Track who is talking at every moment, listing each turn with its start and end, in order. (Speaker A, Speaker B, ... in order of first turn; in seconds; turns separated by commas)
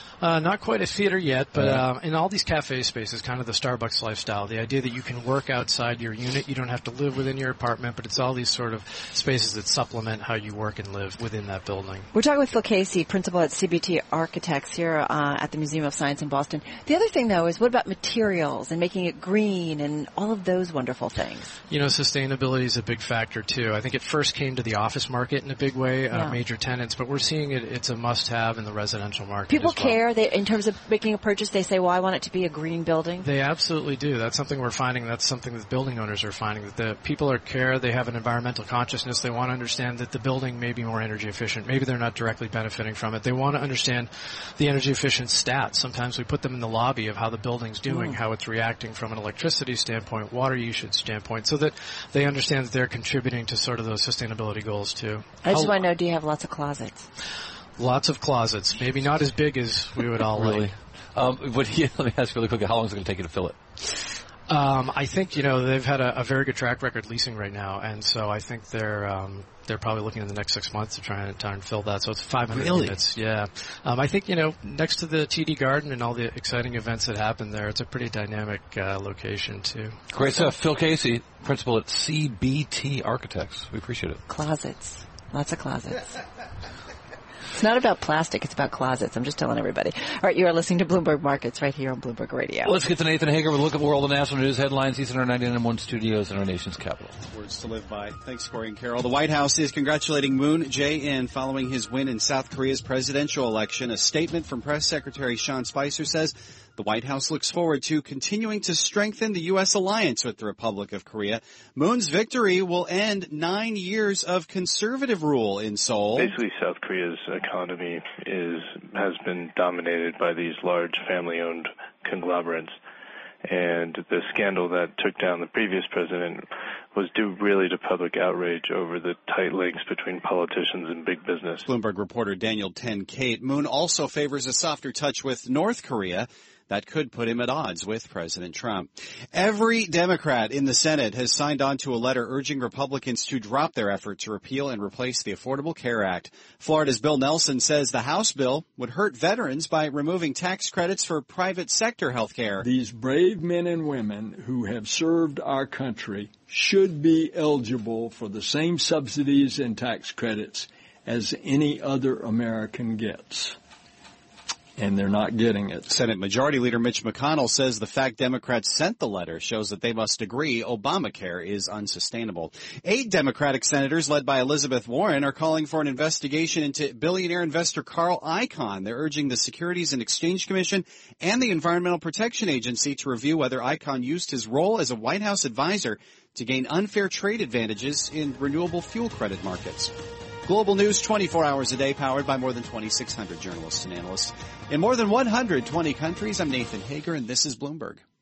Speaker A: 0.2-12.1, Speaker B: 12.1-21.5, Speaker A: 21.7-30.0, Speaker B: 26.1-26.4, Speaker B: 29.5-33.3, Speaker A: 33.2-55.8, Speaker B: 47.9-48.1, Speaker B: 55.4-57.0, Speaker A: 57.8-60.7, Speaker C: 60.3-63.6, Speaker A: 64.5-80.0, Speaker C: 72.5-73.0, Speaker C: 80.1-84.2, Speaker B: 84.3-86.2, Speaker B: 87.5-92.7, Speaker C: 92.7-97.2, Speaker D: 97.3-116.4, Speaker E: 116.2-122.7, Speaker E: 123.5-126.4, Speaker E: 127.0-131.7, Speaker D: 131.7-152.7, Speaker F: 152.6-163.6, Speaker F: 164.8-165.9, Speaker D: 165.9-189.9, Speaker D: 190.5-198.0